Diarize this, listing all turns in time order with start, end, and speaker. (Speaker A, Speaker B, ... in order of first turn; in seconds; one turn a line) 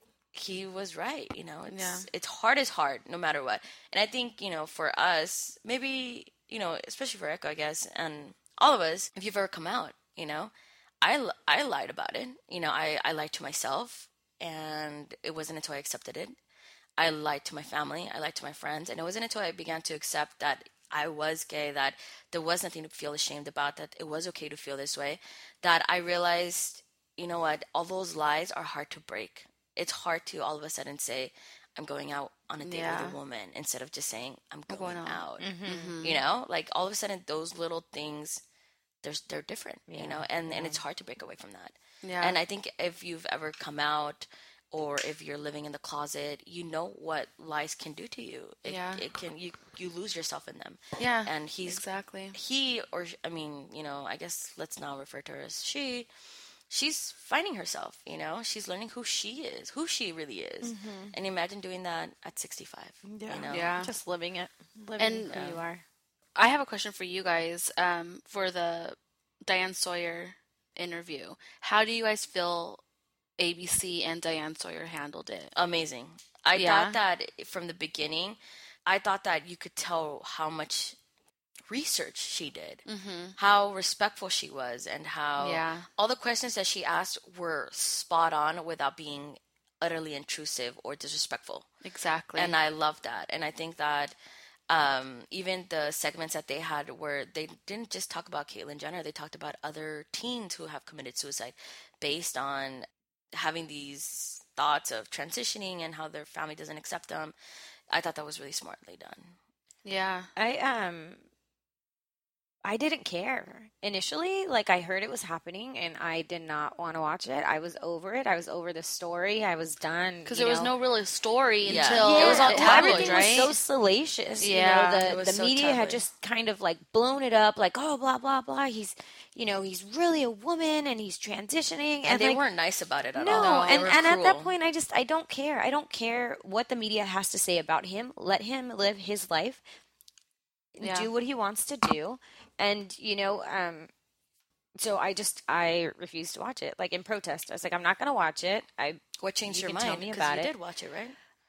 Speaker A: 0.3-16.4
Speaker B: 1.7-2.1
Speaker A: 17.0-38.4
Speaker B: 32.6-33.2
Speaker B: 34.7-36.2
Speaker C: 35.4-36.0
Speaker A: 39.0-51.8
Speaker C: 39.9-40.8
Speaker B: 42.0-42.4
Speaker B: 48.6-49.0
Speaker B: 51.0-52.3
Speaker A: 52.3-56.1
Speaker A: 56.7-63.7
Speaker C: 60.6-61.1
Speaker C: 63.0-65.8
Speaker B: 63.5-63.9
Speaker B: 65.0-65.5
Speaker A: 65.3-65.6
Speaker B: 66.3-72.8
Speaker B: 73.4-75.5
Speaker A: 75.5-81.0
Speaker B: 76.5-77.0
Speaker A: 81.7-82.8
Speaker B: 82.9-83.3
Speaker A: 83.3-91.7
Speaker B: 85.4-85.9
Speaker B: 91.8-92.5
Speaker A: 92.3-94.2
Speaker A: 94.7-107.3
Speaker A: 107.9-109.3
Speaker B: 109.8-110.3
Speaker C: 110.3-111.2
Speaker C: 112.6-120.7
Speaker B: 120.2-123.5
Speaker A: 121.6-123.5
Speaker C: 122.0-132.4
Speaker B: 124.4-125.1
Speaker A: 125.0-126.0
Speaker A: 132.1-134.5
Speaker C: 133.1-139.6
Speaker B: 133.3-133.9
Speaker C: 140.8-143.9
Speaker B: 140.8-141.1
Speaker C: 144.8-150.5
Speaker A: 149.2-151.2